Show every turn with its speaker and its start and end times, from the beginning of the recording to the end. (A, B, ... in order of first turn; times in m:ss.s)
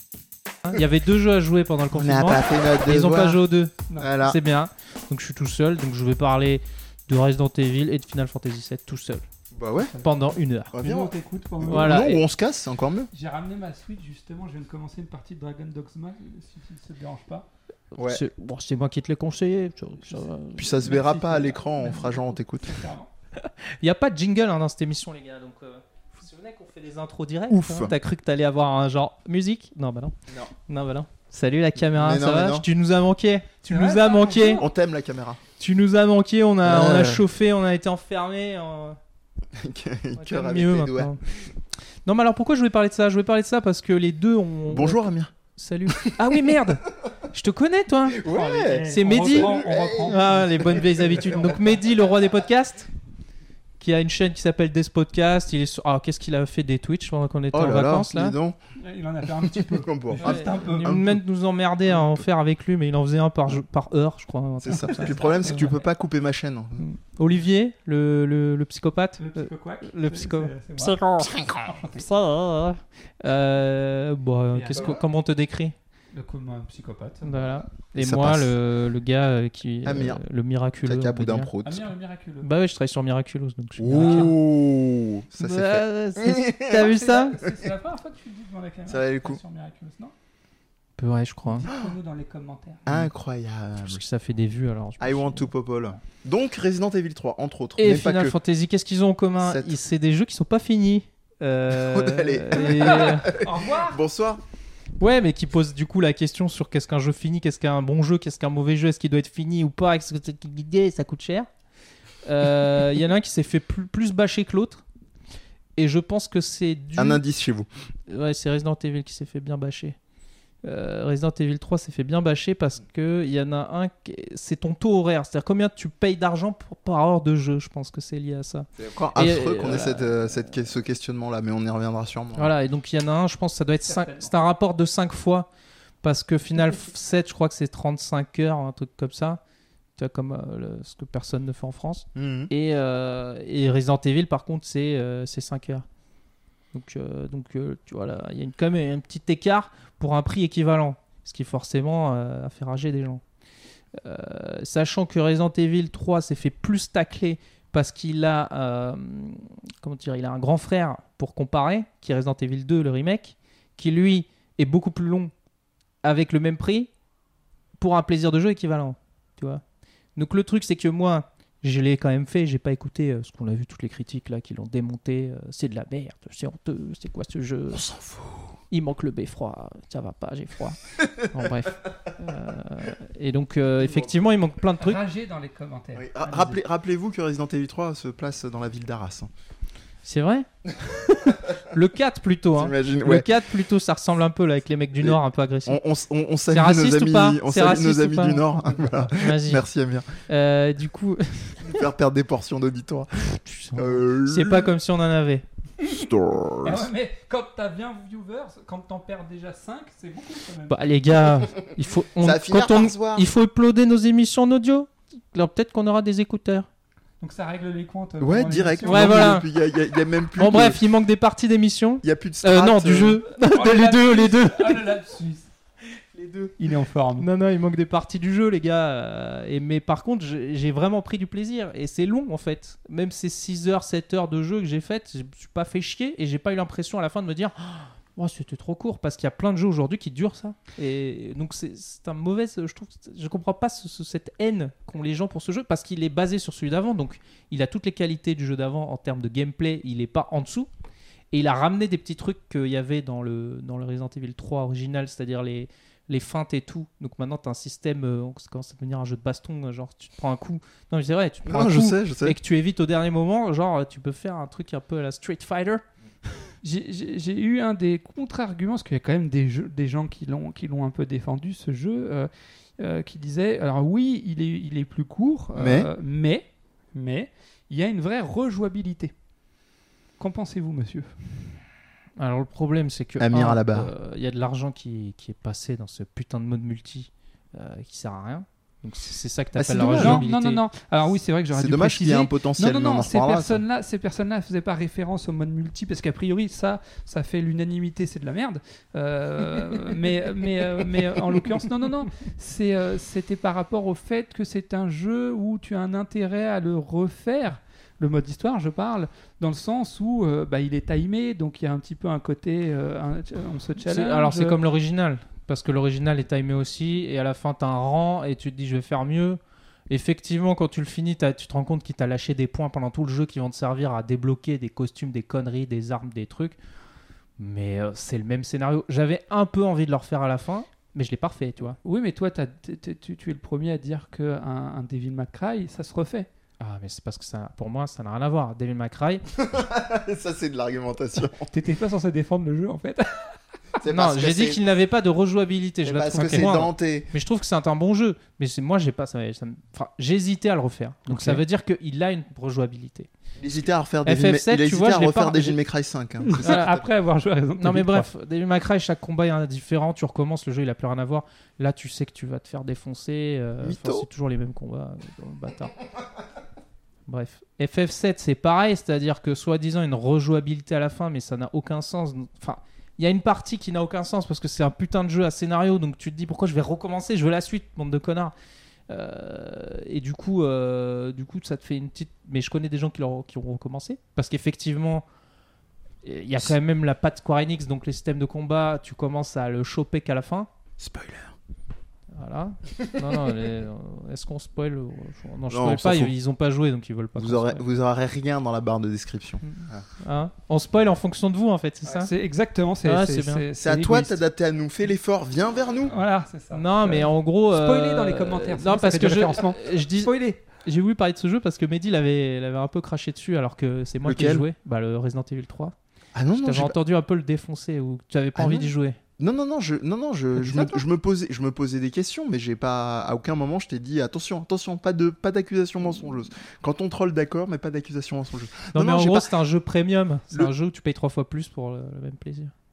0:00.6-0:09.2 A
0:01.9-0:03.4 B
0:04.0-0:04.4 B
0:09.5-0:09.9 B
0:09.8-0:12.1 C
0:10.0-0:10.7 A
0:10.7-0:13.1 B
0:11.7-0:12.2 A
0:13.1-0:17.5 C
0:17.9-0:20.7 A
0:18.0-0:18.2 B
0:20.1-0:23.1 C
0:20.6-0:22.8 B
0:23.4-0:30.2 A
0:27.5-0:27.9 B
0:30.7-0:34.6 A
0:31.8-0:32.7 B
0:33.7-0:34.7 C
0:34.6-0:35.4 B
0:35.6-0:39.0 A
0:36.6-0:37.3 B
0:39.5-0:41.1 B
0:40.2-0:41.2 A
0:42.0-0:48.2 A
0:44.7-0:45.3 B
0:45.9-0:46.4 B
0:48.1-0:51.6 B
0:48.2-0:50.9 C
0:48.8-0:52.9 A
0:53.8-0:58.4 A
0:57.5-0:58.6 B
0:58.8-1:01.0 C
0:59.3-1:01.2 B
1:00.2-1:05.8 A
1:04.6-1:06.8 B
1:04.7-1:05.8 C
1:06.8-1:15.8 A
1:09.2-1:12.1 C
1:14.5-1:15.0 C
1:16.1-1:17.6 C
1:17.2-1:21.5 A
1:18.0-1:18.5 B
1:19.8-1:20.2 B
1:20.8-1:21.9 B
1:21.6-1:22.5 C
1:22.4-1:24.3 A
1:23.8-1:27.7 B
1:23.9-1:24.3 C
1:25.4-1:27.4 A
1:26.8-1:30.1 C
1:28.9-1:29.4 B
1:31.0-1:31.7 A
1:31.5-1:32.8 C
1:31.7-1:32.0 B
1:32.9-1:34.0 B
1:33.8-1:35.5 A
1:35.0-1:38.4 B
1:37.8-1:43.3 A
1:39.4-1:39.8 B
1:41.7-1:44.4 B
1:42.6-1:44.0 C
1:45.0-1:51.5 A
1:52.2-1:54.8 A
1:55.8-1:57.2 A
1:57.0-1:57.7 B
1:58.1-2:00.0 A
2:00.6-2:10.6 A
2:08.8-2:12.5 B
2:12.4-2:15.5 A
2:13.9-2:14.3 C
2:16.0-2:19.4 A
2:20.0-2:25.9 A
2:22.2-2:22.5 B
2:26.7-2:33.2 A
2:34.0-2:45.3 A
2:46.0-2:46.9 A
2:47.8-2:49.6 A
2:50.2-2:57.8 A
2:57.7-2:58.6 B
2:58.7-3:05.0 A
3:01.0-3:01.5 B
3:03.8-3:04.1 B
3:04.8-3:06.6 C
3:06.0-3:09.3 B
3:10.0-3:15.8 A
3:11.3-3:11.6 B
3:12.6-3:13.3 B
3:15.0-3:20.1 B
3:16.5-3:19.6 A
3:20.3-3:21.8 A
3:21.6-3:24.7 B
3:23.2-3:25.4 A
3:25.8-3:26.9 B
3:26.6-3:30.8 C
3:30.7-3:36.7 A
3:32.2-3:33.3 B
3:37.2-3:39.3 C
3:38.2-3:40.8 B
3:38.9-3:39.5 A
3:40.4-3:44.9 A
3:42.0-3:43.2 B
3:43.4-3:45.5 C
3:46.1-3:46.6 A
3:46.6-3:47.3 C
3:47.2-4:10.7 A
4:11.3-4:25.8 A
4:21.5-4:22.4 B
4:26.6-4:39.1 C
4:35.6-4:35.9 B
4:40.2-4:41.2 C
4:42.2-4:50.6 A
4:43.2-4:43.9 B
4:49.6-4:50.2 B
4:49.8-5:14.6 C
4:51.5-4:53.6 B
5:13.8-5:19.4 A
5:19.9-5:26.6 A
5:27.4-5:31.8 A
5:31.8-5:36.3 C
5:36.6-5:39.2 A
5:39.3-5:41.5 B
5:41.5-5:43.3 C
5:43.8-5:44.6 B
5:43.9-5:55.6 A
5:45.8-5:47.1 B
5:51.1-5:51.4 C
5:53.4-5:56.8 B
5:56.3-5:58.1 C
5:56.3-5:56.7 A
5:57.6-6:05.8 A
6:03.6-6:04.1 B
6:07.1-6:18.3 A
6:18.9-6:25.0 A
6:26.0-6:30.5 A
6:30.8-6:31.4 B
6:32.1-6:37.6 A
6:32.8-6:33.4 B
6:35.5-6:36.1 B
6:37.2-6:39.9 B
6:39.4-6:42.1 A
6:42.0-6:44.2 C
6:42.8-6:43.4 A
6:43.6-6:45.9 B
6:45.9-6:50.4 C
6:46.5-6:55.8 A
6:54.0-6:54.5 B
6:56.2-6:56.8 B
6:56.4-6:59.0 A
6:58.4-7:09.3 B
7:00.4-7:00.8 A
7:08.7-7:12.5 A